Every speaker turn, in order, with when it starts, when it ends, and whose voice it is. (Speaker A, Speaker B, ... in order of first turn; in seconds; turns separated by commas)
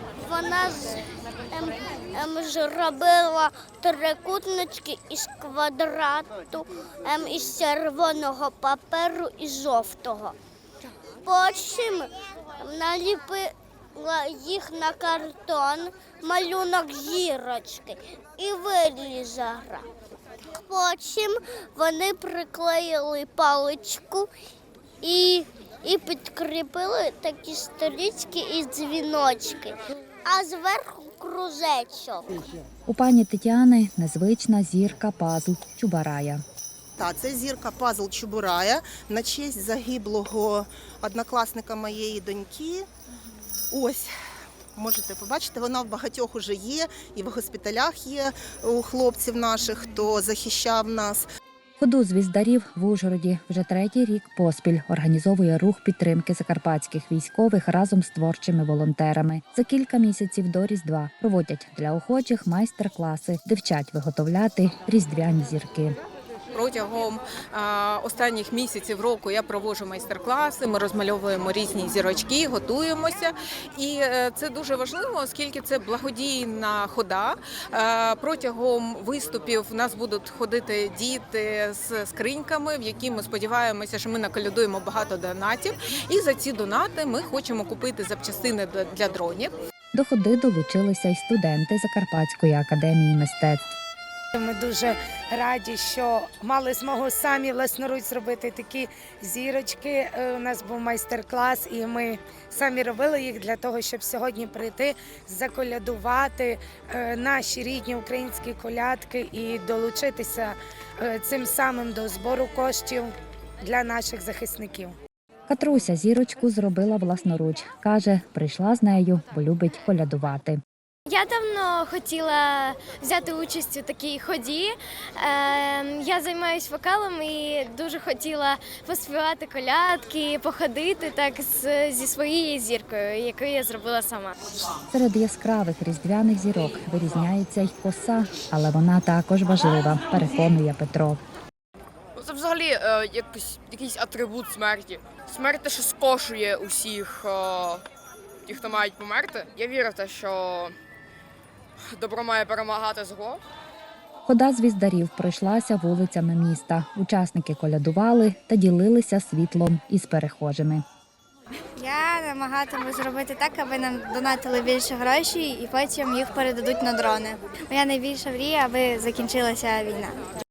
Speaker A: 0.2-10.3, Speaker A: 11.2-19.9, Speaker A: 20.5-24.3, Speaker A: 25.0-32.3, Speaker B: 32.9-36.4, Speaker C: 37.0-42.9, Speaker C: 43.7-44.1, Speaker C: 44.7-51.2, Speaker B: 51.8-66.0, Speaker D: 66.5-89.5, Speaker B: 89.9-93.7, Speaker E: 94.3-115.0, Speaker B: 115.5-120.6, Speaker F: 121.1-134.3, Speaker B: 134.9-141.2, Speaker G: 142.2-147.8, Speaker G: 148.4-150.8, Speaker G: 151.8-153.4, Speaker B: 154.2-160.8, Speaker H: 161.8-170.3